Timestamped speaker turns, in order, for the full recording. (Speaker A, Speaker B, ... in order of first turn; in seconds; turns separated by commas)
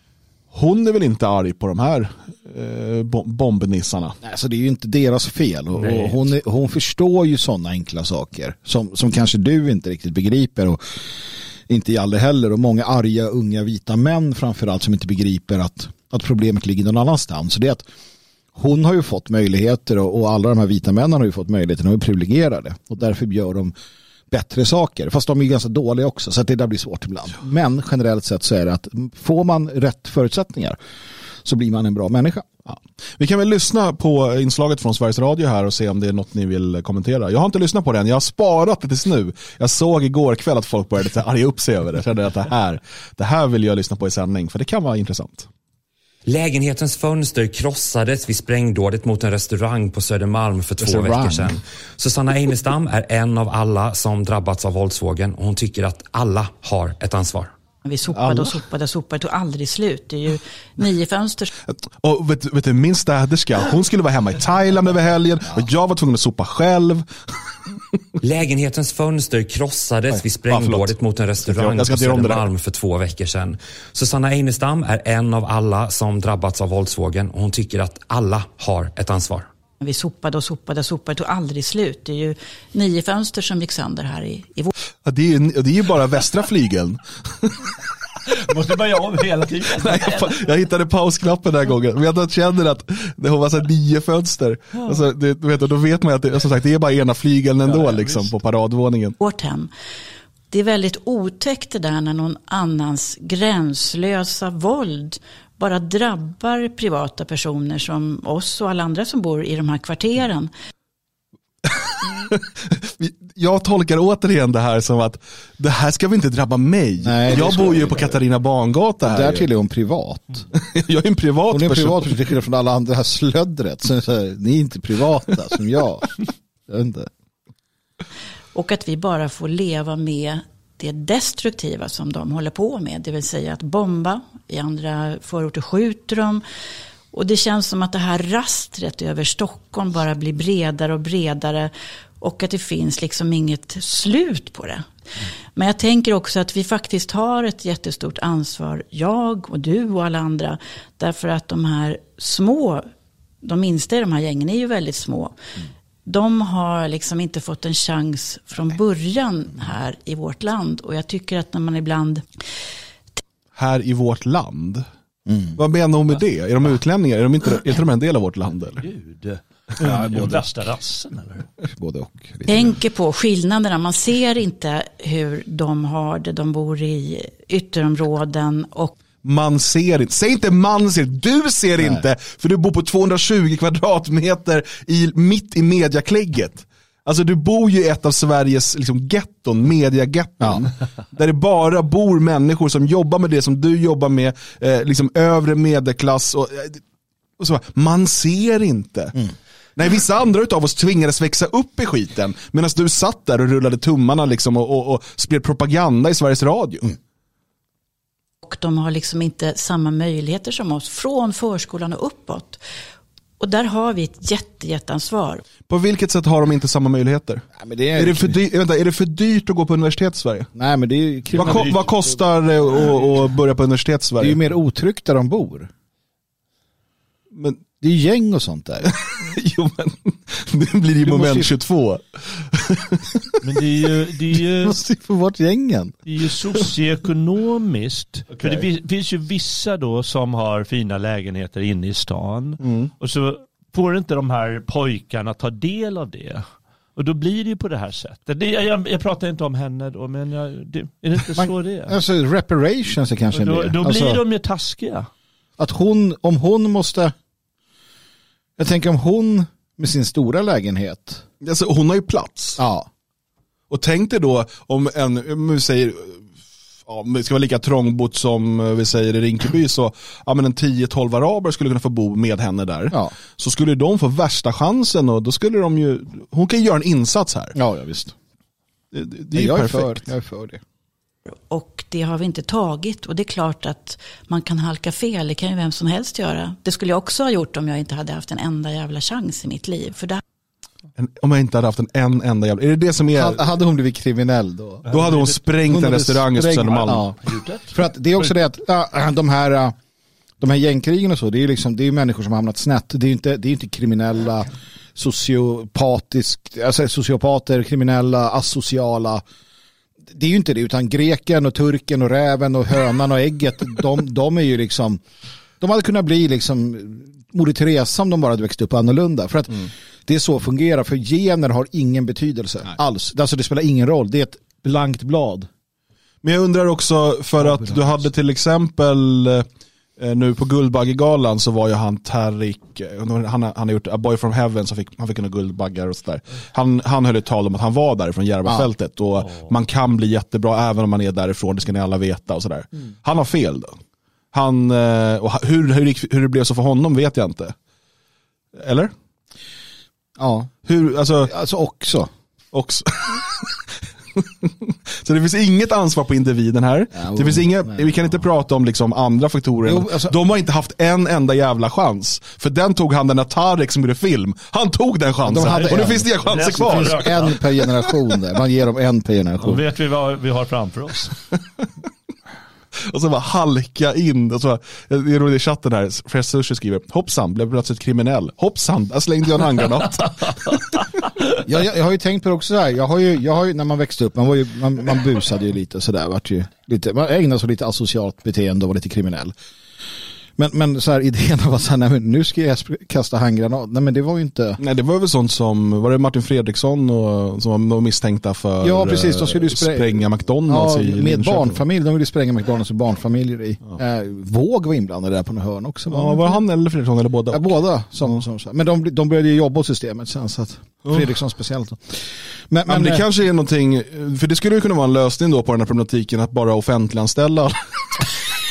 Speaker A: 0.5-4.2, Speaker B: 4.2-10.8, Speaker C: 5.8-6.2, Speaker B: 11.7-17.9, Speaker B: 18.5-23.7, Speaker B: 24.3-30.8, Speaker B: 31.4-32.5, Speaker A: 32.7-45.5, Speaker D: 46.3-57.5, Speaker A: 50.8-51.4, Speaker E: 57.9-61.5, Speaker A: 58.1-58.5, Speaker A: 62.0-67.1, Speaker D: 68.2-79.5, Speaker A: 70.5-72.5, Speaker E: 79.8-84.7, Speaker A: 85.0-87.6, Speaker C: 88.3-90.4, Speaker A: 89.8-99.2, Speaker C: 97.7-98.3, Speaker E: 99.2-99.7, Speaker E: 100.5-110.5, Speaker A: 111.7-119.5, Speaker B: 117.0-118.2, Speaker B: 119.0-120.5, Speaker A: 120.5-122.2, Speaker B: 121.5-127.1, Speaker E: 128.6-136.4, Speaker E: 137.1-144.9, Speaker E: 145.6-152.9, Speaker E: 153.4-155.3, Speaker E: 156.1-162.2, Speaker A: 163.6-164.8, Speaker B: 165.3-165.6, Speaker A: 165.6-168.8, Speaker C: 168.8-171.5, Speaker B: 169.8-170.5, Speaker B: 171.6-172.8, Speaker E: 172.5-178.9, Speaker A: 179.2-196.8, Speaker A: 197.4-199.2, Speaker A: 199.8-206.9, Speaker E: 208.4-212.6, Speaker E: 213.4-215.5, Speaker A: 215.7-220.5, Speaker B: 217.6-218.4, Speaker B: 220.6-222.0, Speaker C: 221.3-221.9, Speaker A: 221.3-224.4, Speaker B: 224.2-225.7, Speaker A: 227.3-227.6, Speaker B: 227.8-228.9, Speaker A: 228.9-233.3, Speaker B: 231.0-231.5, Speaker C: 233.4-234.8, Speaker B: 234.6-236.0, Speaker C: 236.1-246.4, Speaker A: 238.3-238.6, Speaker A: 242.6-242.9, Speaker C: 247.0-252.0, Speaker B: 251.3-254.2, Speaker C: 253.3-255.1, Speaker B: 255.6-257.1, Speaker B: 258.6-261.2, Speaker A: 261.4-262.6, Speaker B: 262.6-262.9, Speaker A: 263.7-266.3, Speaker A: 266.9-277.6, Speaker B: 277.6-278.1, Speaker A: 278.9-280.1, Speaker B: 279.3-280.6, Speaker E: 281.5-290.2, Speaker A: 291.0-293.4, Speaker B: 293.1-294.9, Speaker A: 294.9-297.1, Speaker C: 294.9-295.4, Speaker B: 295.7-299.8, Speaker C: 297.2-297.7, Speaker B: 300.4-309.2, Speaker B: 310.1-315.0, Speaker B: 315.6-325.5, Speaker A: 326.2-329.5, Speaker B: 327.4-328.1, Speaker A: 330.0-343.8, Speaker C: 339.2-339.5, Speaker A: 344.3-347.5, Speaker A: 348.6-348.9, Speaker B: 350.2-350.5, Speaker A: 350.7-351.3, Speaker B: 351.2-352.1, Speaker A: 352.5-367.2, Speaker B: 357.0-357.9, Speaker B: 359.6-360.1, Speaker B: 365.2-369.6, Speaker C: 365.4-367.4, Speaker C: 369.4-371.1, Speaker A: 372.9-380.8, Speaker B: 381.4-389.3, Speaker B: 390.4-394.6, Speaker A: 394.6-401.6, Speaker B: 398.6-406.4, Speaker A: 405.9-407.5, Speaker B: 407.3-413.0, Speaker A: 410.9-411.1, Speaker A: 412.7-418.1